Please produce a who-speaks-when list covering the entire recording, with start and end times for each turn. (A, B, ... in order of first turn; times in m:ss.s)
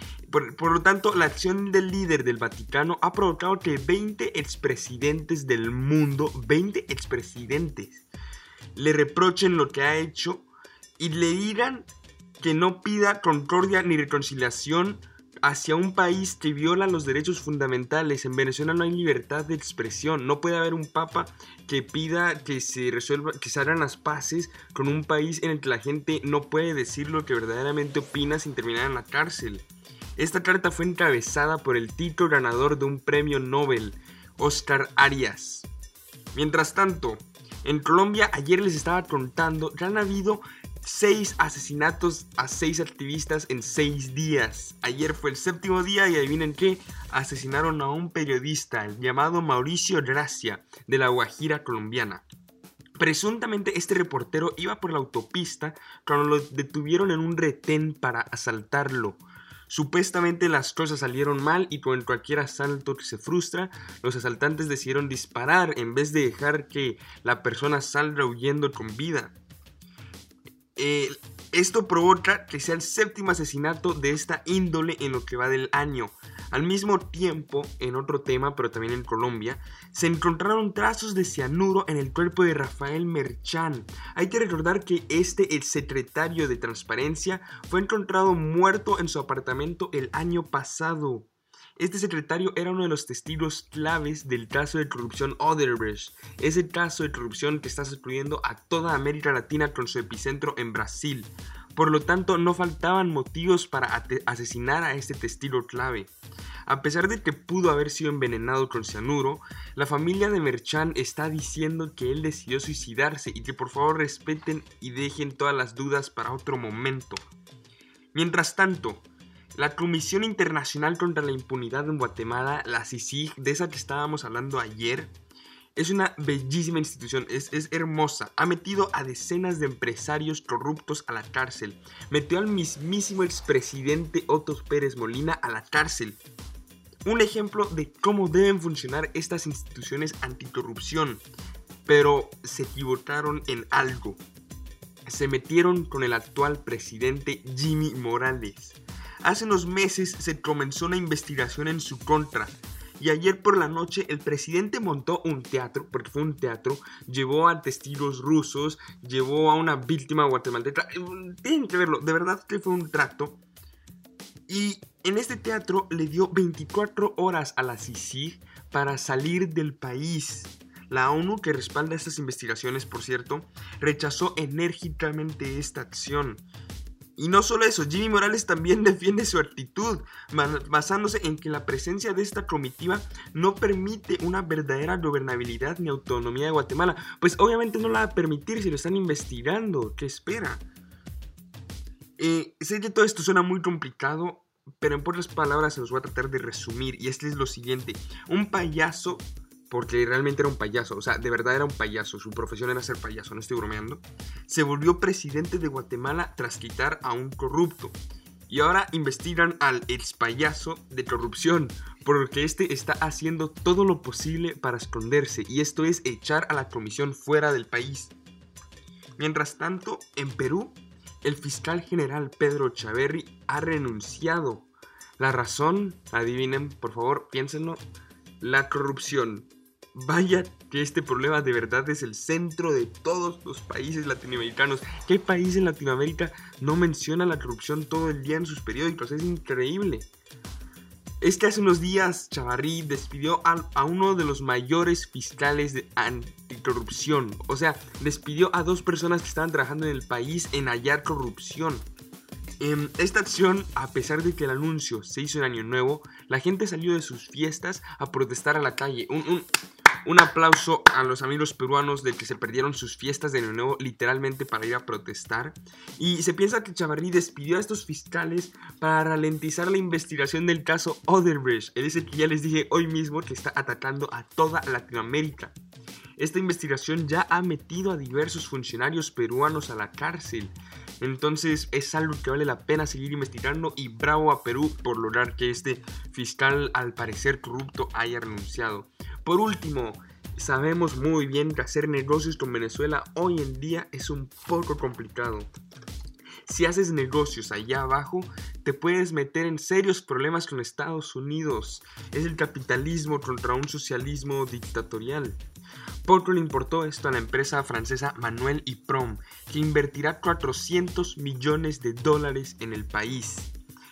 0:00.3-0:08.1 A
0:08.7-0:11.9 A
0:12.4-0:29.6 A
0:30.2-0:35.7 A
0:36.3-0:52.2 A
0:53.0-1:09.4 A
1:10.8-1:46.1 A
1:46.7-1:57.2 A
1:58.1-2:05.1 A
2:05.8-2:16.2 A
2:17.0-2:21.2 A
2:21.8-2:24.2 A
2:25.0-2:43.4 A
2:44.5-2:56.4 A
2:57.2-3:10.6 A
3:12.2-3:27.9 A
3:28.5-3:38.1 A
3:39.2-3:44.7 A
3:45.2-3:47.8 A
3:48.4-4:00.1 A
4:01.2-4:11.8 A
4:12.6-4:19.5 A
4:20.0-4:35.5 A
4:36.2-4:55.5 A
4:56.4-5:05.4 A
5:06.0-5:13.5 A